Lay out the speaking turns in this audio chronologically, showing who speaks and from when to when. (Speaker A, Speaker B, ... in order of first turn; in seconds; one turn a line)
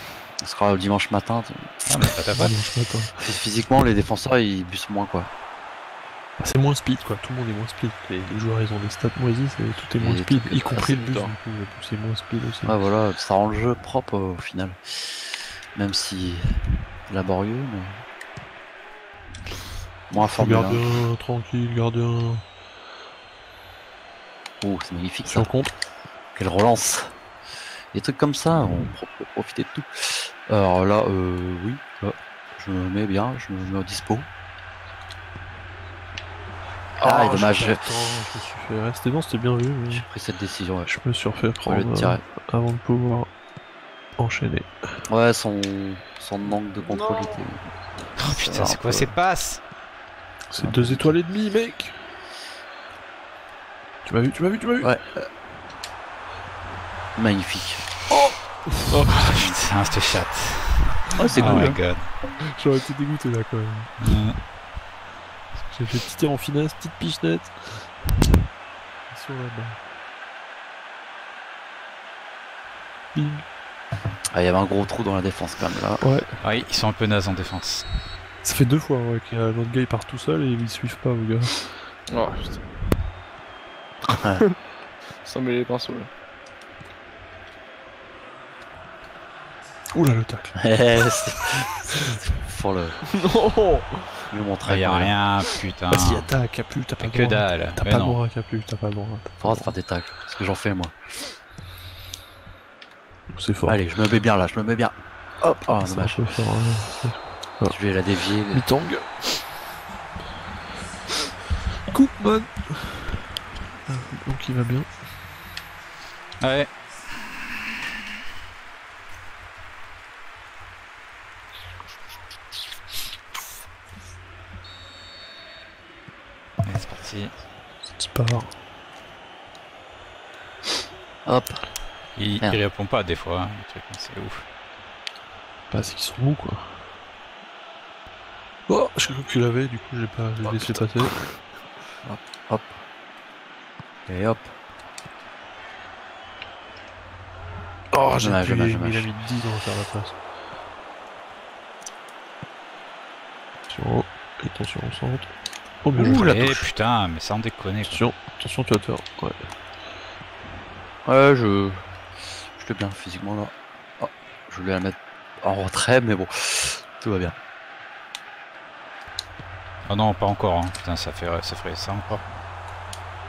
Speaker A: 0.4-2.1
Speaker B: 1.9-2.5
Speaker C: 2.3-3.2
Speaker A: 3.2-5.3
Speaker C: 6.4-12.8
Speaker A: 10.0-10.8
Speaker D: 10.8-11.3
Speaker A: 12.7-18.0
Speaker A: 20.1-21.0
Speaker C: 20.2-22.4
Speaker A: 24.6-25.5
Speaker C: 25.3-25.7
Speaker A: 26.4-27.1
Speaker A: 27.9-34.3
Speaker A: 37.0-37.8
Speaker C: 37.0-40.1
Speaker A: 39.9-41.0
Speaker C: 40.9-43.3
Speaker A: 41.6-42.2
Speaker C: 44.2-45.0
Speaker A: 45.1-49.1
Speaker D: 46.9-47.4
Speaker B: 48.2-49.6
Speaker C: 50.5-52.0
Speaker A: 50.6-51.1
Speaker C: 54.0-55.0
Speaker A: 54.8-55.3
Speaker A: 57.2-57.9
Speaker C: 58.1-58.9
Speaker D: 58.9-59.3
Speaker B: 59.1-62.1
Speaker A: 59.2-59.6
Speaker A: 61.1-61.8
Speaker C: 61.4-61.8
Speaker C: 62.4-63.9
Speaker B: 64.0-64.4
Speaker C: 65.7-67.9
Speaker C: 69.1-69.8
Speaker C: 73.1-73.5
Speaker A: 74.3-76.0
Speaker C: 76.0-76.4
Speaker B: 76.4-77.9
Speaker C: 78.4-81.7
Speaker D: 82.1-82.6
Speaker A: 84.1-84.4
Speaker D: 85.2-86.1
Speaker C: 89.9-90.8
Speaker A: 90.6-93.0
Speaker D: 93.1-94.2
Speaker A: 94.3-95.1
Speaker B: 94.7-96.3
Speaker C: 95.9-99.7
Speaker B: 97.0-98.2
Speaker A: 99.4-100.9
Speaker C: 103.3-103.8
Speaker A: 103.7-106.2
Speaker C: 105.8-107.8
Speaker A: 107.7-108.7
Speaker C: 108.5-109.2
Speaker C: 111.9-114.9
Speaker B: 116.4-117.5
Speaker B: 126.6-127.3
Speaker C: 127.9-128.6
Speaker A: 131.2-131.7
Speaker B: 132.2-134.4
Speaker C: 135.7-136.8
Speaker C: 138.7-141.3
Speaker A: 142.0-142.7
Speaker A: 144.1-144.5
Speaker C: 147.9-150.2
Speaker A: 148.2-149.1
Speaker C: 153.7-155.3
Speaker C: 155.8-156.4
Speaker A: 156.0-156.7
Speaker B: 156.0-158.0
Speaker C: 157.9-159.5
Speaker A: 161.1-161.8
Speaker A: 162.6-167.3
Speaker B: 169.9-172.4